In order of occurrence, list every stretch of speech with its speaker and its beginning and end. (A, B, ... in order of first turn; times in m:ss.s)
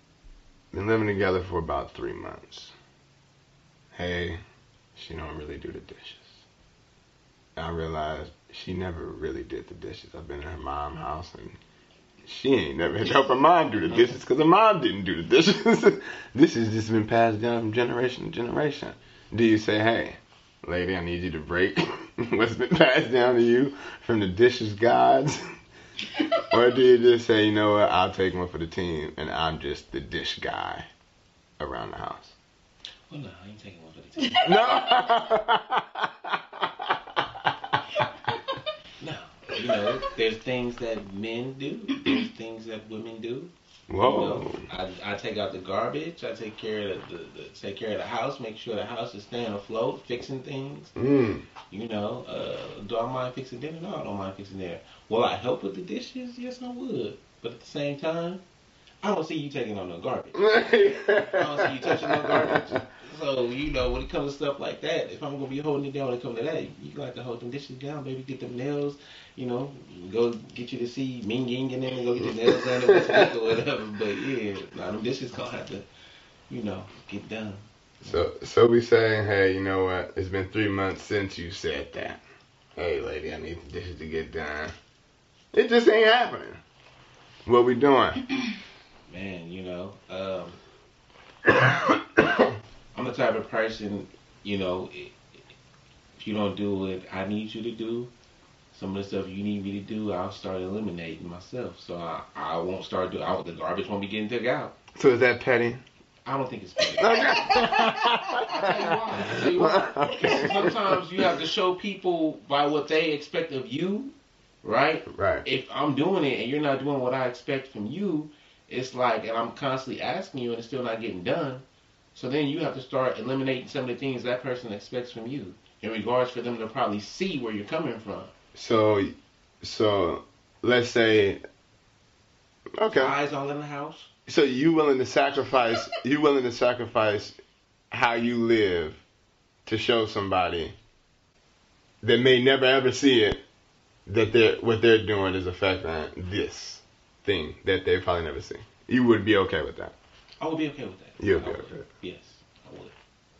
0:00.7-0:02.7 A
0:03.9-0:04.4 A
0:05.0-0:06.4 A
0:07.6-0:11.6 A
0:12.2-0:25.4 A
0:26.4-0:30.8 A
0:31.6-0:32.4 A
0:33.1-0:34.6 B
0:34.4-0:37.5 A
0:39.0-0:50.9 B
0:43.9-0:44.6 A
0:51.0-0:51.5 A
0:51.7-0:58.4 B
0:59.0-1:00.6 B
1:00.4-1:02.8 A
1:01.2-1:15.9 B
1:12.4-1:13.4 A
1:16.5-1:18.2 B
1:18.0-1:22.2 A
1:22.8-1:24.7 A
1:25.5-1:26.6 A
1:27.5-1:28.2 A
1:29.1-1:30.6 B
1:32.9-1:35.4 B
1:36.2-1:38.1 B
1:38.7-1:44.8 B
1:45.0-1:45.8 A
1:46.2-2:01.6 B
1:47.0-1:51.0 A
1:55.1-1:55.5 A
2:02.2-2:08.3 B
2:08.6-2:11.4 A
2:12.8-2:13.2 A
2:12.9-2:14.1 B
2:14.3-2:17.4 A
2:17.9-2:19.0 A
2:19.7-2:20.7 A
2:22.0-2:23.4 A
2:24.1-2:30.0 A
2:30.4-2:33.0 B
2:31.2-2:31.8 A